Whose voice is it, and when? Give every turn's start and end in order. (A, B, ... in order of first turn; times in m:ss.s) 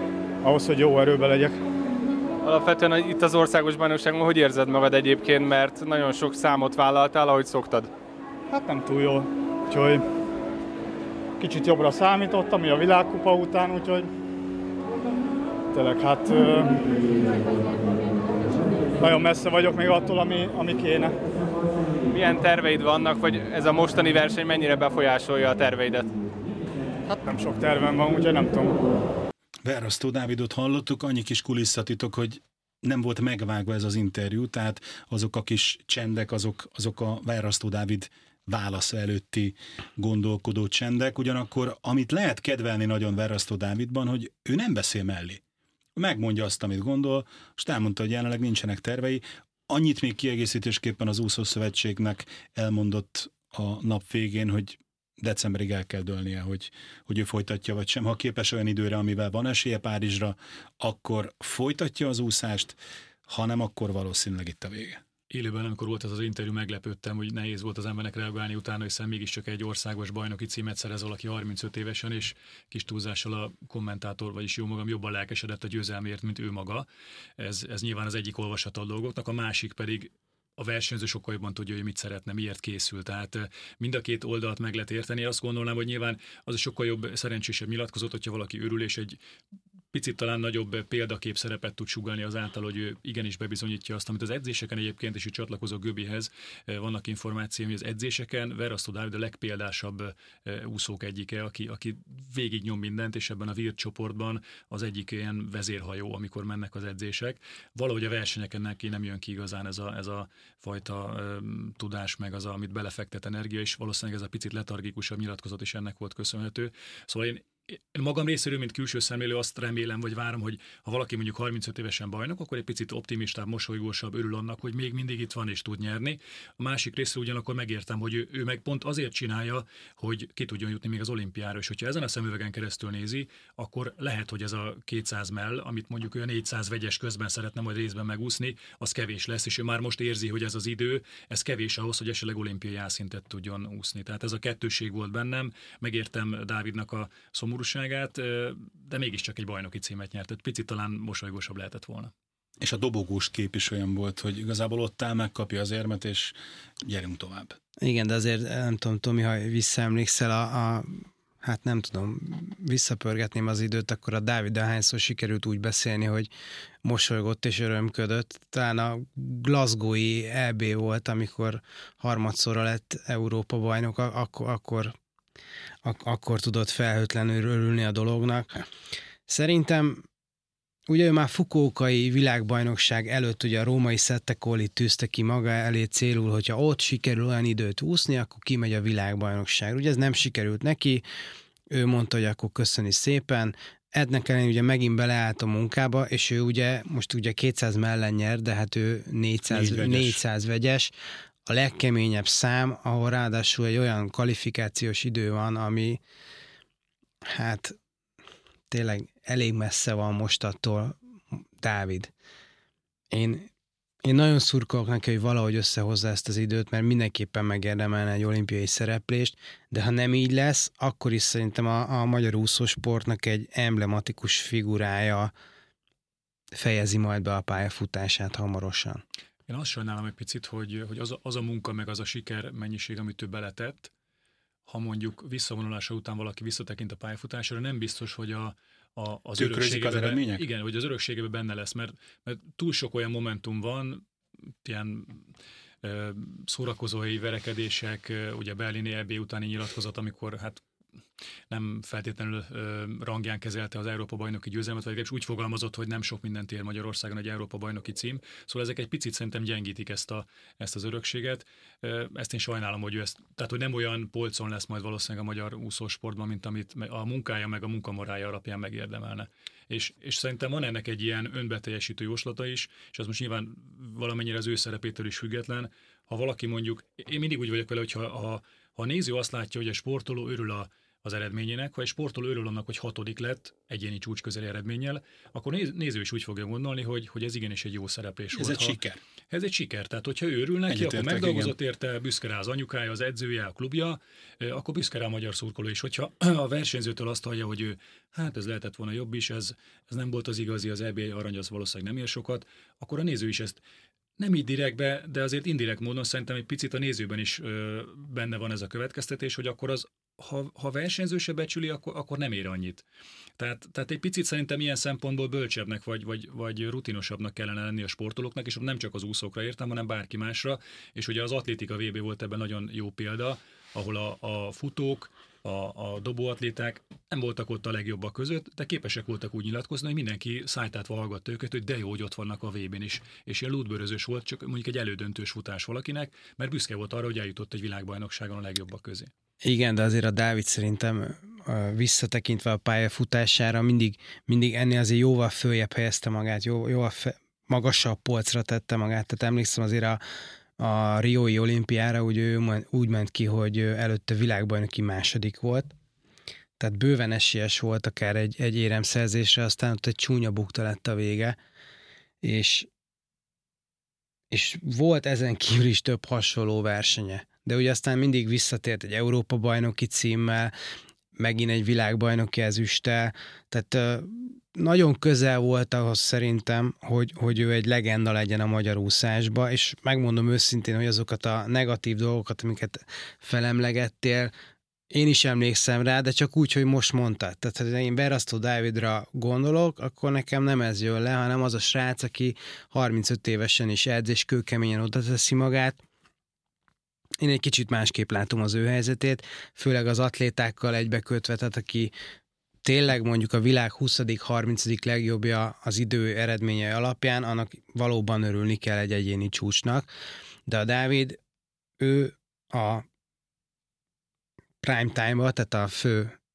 0:00.4-0:01.6 A
0:02.4-0:07.9 B
0:08.5-0:10.0 A
0:11.4-0:14.1 A
0:15.7-0:16.9 A
0:19.0-0:21.2 A
0:22.1-0:26.1 B
0:27.1-0:28.8 A
0:29.6-0:45.4 C
0:46.0-1:05.0 C
1:05.3-1:16.9 D
1:17.4-1:29.2 D
1:29.9-2:32.1 D
2:32.6-2:37.6 C
2:37.8-2:46.3 E
2:46.8-2:54.9 E
2:55.8-2:58.6 E
2:59.3-3:00.0 E
3:00.9-3:11.0 E
3:11.7-3:20.9 E
3:19.5-3:20.2 C
3:21.5-3:26.0 E
3:27.2-3:27.8 E
3:28.7-3:32.1 E
3:33.1-3:33.5 E
3:34.0-3:45.3 E
3:46.5-3:49.0 E
3:49.5-3:53.9 D
3:54.7-4:04.0 D
3:59.4-4:00.4 C
4:04.6-4:05.3 D
4:05.8-4:10.6 D
4:11.5-4:48.8 D
4:48.3-4:49.0 C
4:49.3-5:03.6 D
4:50.7-4:51.5 C
5:04.2-5:12.8 D
5:13.4-5:39.1 D
5:39.4-5:50.0 E
5:50.6-5:55.7 E
5:56.6-6:01.4 E
6:02.2-6:02.7 E
6:04.3-6:10.5 E
6:11.2-6:24.3 E
6:24.9-6:35.8 E
6:37.2-6:41.9 E
6:42.6-6:49.9 E
6:50.5-6:51.2 E
6:51.8-6:52.8 E
6:54.6-6:56.2 E